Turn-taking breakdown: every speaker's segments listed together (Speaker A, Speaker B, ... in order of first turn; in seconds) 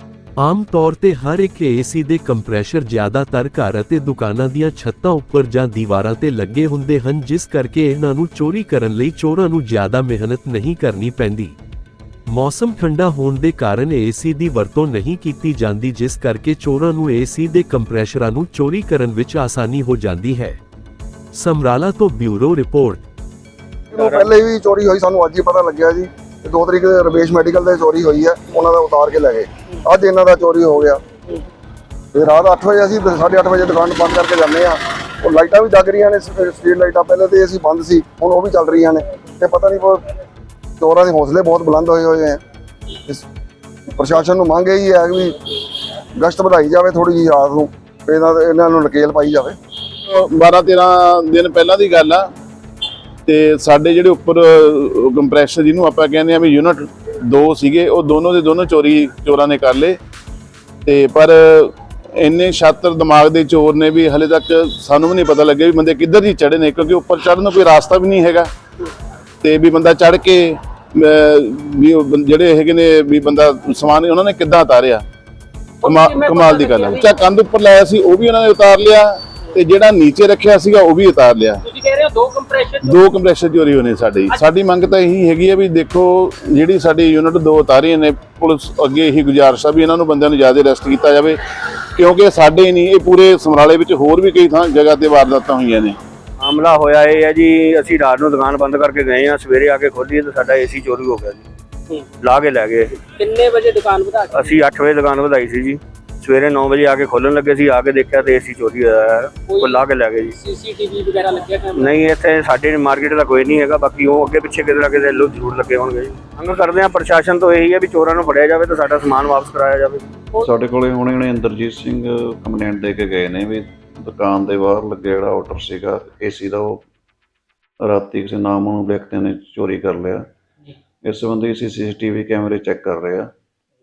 Speaker A: 0.4-11.6, 12.3-20.6, 21.3-23.0
Speaker B: 23.9-31.0, 32.1-40.0, 40.8-42.4, 44.0-45.4, 46.2-49.6
Speaker C: 23.9-24.3, 96.4-101.5, 102.2-103.0, 104.3-110.4, 111.8-120.2
Speaker D: 50.0-52.3, 53.3-60.0, 60.8-68.5, 69.4-75.0, 75.8-81.6, 82.8-96.0
Speaker E: 75.8-77.2, 81.6-83.0, 103.1-104.6, 109.5-111.9
Speaker F: 120.4-126.8, 127.8-130.3, 131.0-133.3